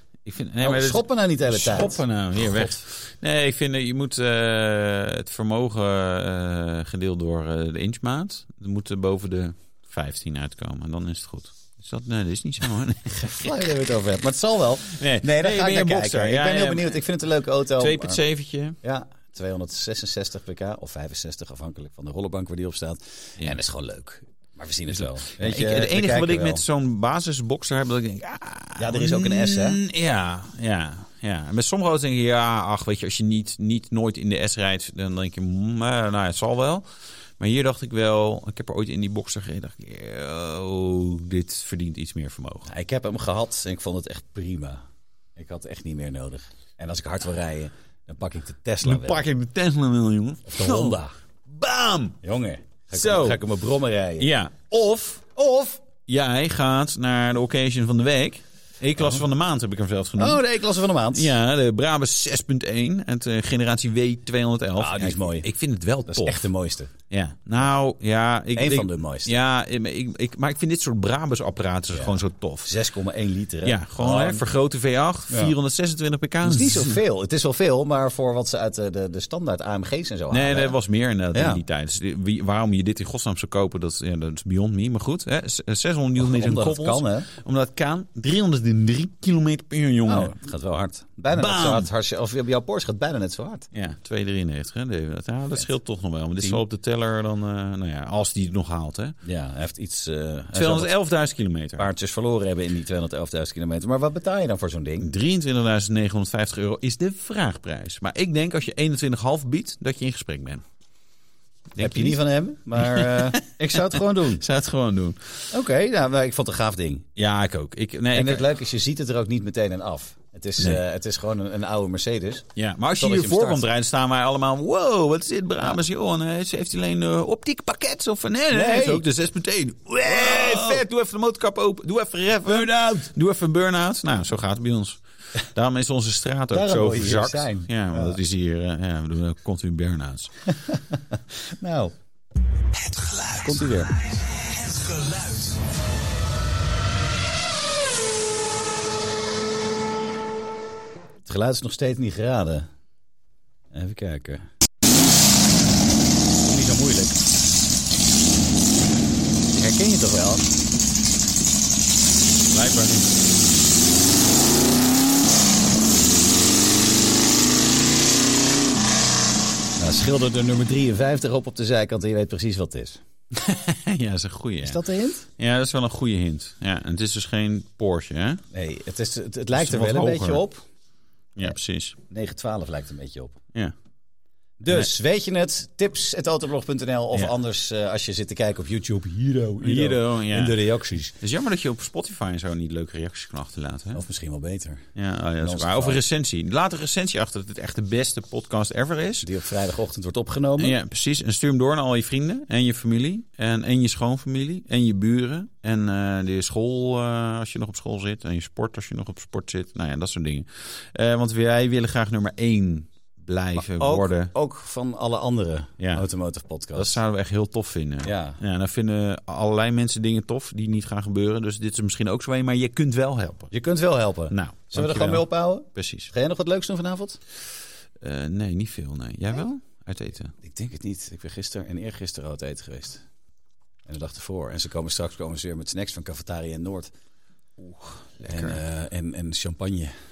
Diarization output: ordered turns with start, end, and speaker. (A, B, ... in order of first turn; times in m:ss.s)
0:00.2-0:13.5 A
0:00.6-0:02.8 B
0:13.1-0:18.2 B
0:14.9-0:17.0 A
0:17.8-0:18.8 A
0:18.8-0:26.6 B
0:24.9-0:36.9 A
0:28.8-0:29.8 B
0:37.4-0:42.7 A
0:42.7-0:44.8 B
0:45.4-0:49.2 B
0:48.8-0:52.2 A
0:50.4-0:51.1 B
0:52.2-0:54.3 B
0:52.9-0:53.4 A
0:54.2-0:55.3 A
0:55.3-0:55.8 B
0:56.1-1:00.4 A
1:00.2-1:01.3 B
1:01.1-1:06.5 A
1:04.8-1:05.4 B
1:06.1-1:06.9 B
1:07.1-1:12.7 A
1:08.6-1:09.3 B
1:11.9-1:14.4 B
1:13.6-1:17.0 A
1:15.3-1:15.6 B
1:16.4-1:20.8 B
1:20.3-1:30.3 A
1:21.3-1:21.6 B
1:26.2-1:27.3 B
1:30.0-1:33.7 B
1:31.3-1:31.9 A
1:33.7-1:39.2 A
1:39.2-1:40.9 B
1:40.5-1:41.9 A
1:41.8-1:45.1 B
1:45.0-1:50.6 A
1:51.7-1:52.2 A
1:51.8-1:54.4 B
1:52.7-1:55.5 A
1:55.5-1:57.1 B
1:57.2-1:58.5 A
1:58.1-2:03.6 B
2:02.6-2:20.3 A
2:08.5-2:09.0 B
2:10.0-2:10.8 B
2:12.4-2:13.1 B
2:16.5-2:18.2 B
2:20.5-2:22.0 B
2:23.3-2:24.0 B
2:31.2-2:32.7 B
2:33.7-2:34.4 B
2:36.4-2:37.2 B
2:39.5-2:40.5 B
2:42.5-2:43.1 A
2:49.8-2:53.0 B
2:53.3-2:54.8 A
2:54.6-2:55.3 B
2:55.4-2:58.4 A
2:58.5-3:00.6 B
2:59.5-3:00.4 A
3:01.4-3:02.0 A
3:02.1-3:03.4 B
3:04.6-3:11.1 B
3:09.6-3:10.6 A
3:11.2-3:14.0 A
3:13.9-3:14.9 B
3:15.0-3:19.3 A
3:15.4-3:16.0 B
3:19.2-3:20.8 B
3:20.6-3:34.3 A
3:33.6-3:37.0 B
3:35.8-3:36.0 A
3:36.7-3:43.5 A
3:38.0-3:38.4 B
3:43.5-3:47.2 B
3:44.3-3:46.1 A
3:48.0-3:50.3 A
3:50.4-3:53.0 B
3:53.9-3:56.9 B
3:57.6-3:58.6 A
3:58.3-3:59.9 B